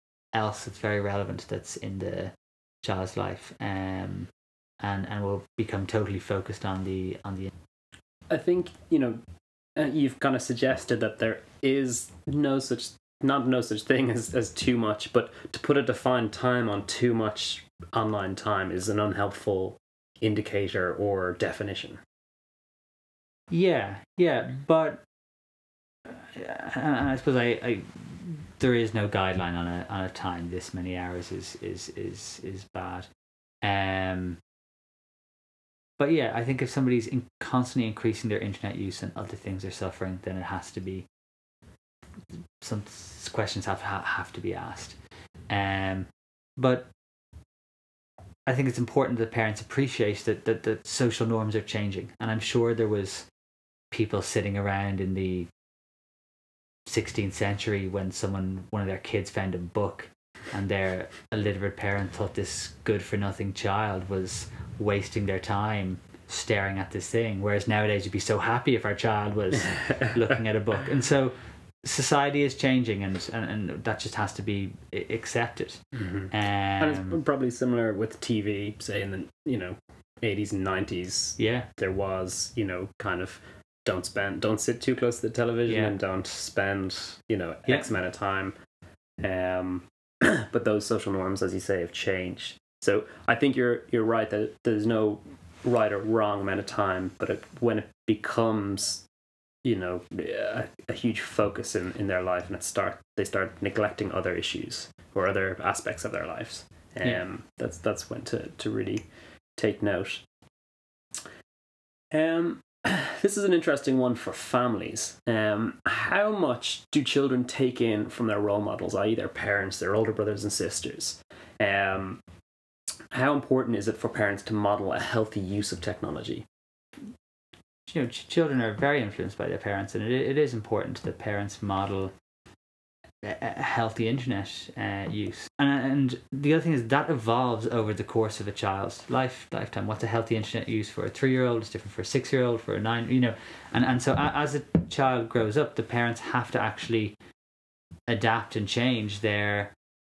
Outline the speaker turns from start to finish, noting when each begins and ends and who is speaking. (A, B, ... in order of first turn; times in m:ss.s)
0:00.3-0:04.3 A
0:04.8-0:07.5 A
0:08.3-0:09.2 B
0:09.8-0:22.0 B
0:23.5-0:25.0 A
0:26.1-0:33.1 A
0:33.6-0:34.4 A
0:36.0-0:41.1 A
0:42.6-0:45.0 A
0:45.5-0:46.9 A
0:48.5-0:53.3 A
0:53.9-0:55.5 A
0:56.9-1:17.2 A
1:16.0-1:28.5 B
1:21.4-1:21.7 A
1:25.7-1:25.9 A
1:29.2-1:39.0 B
1:39.6-1:50.2 B
1:52.1-2:02.2 B
2:03.1-2:06.4 B
2:07.9-2:12.1 A
2:13.2-2:27.2 A
2:28.1-2:29.7 A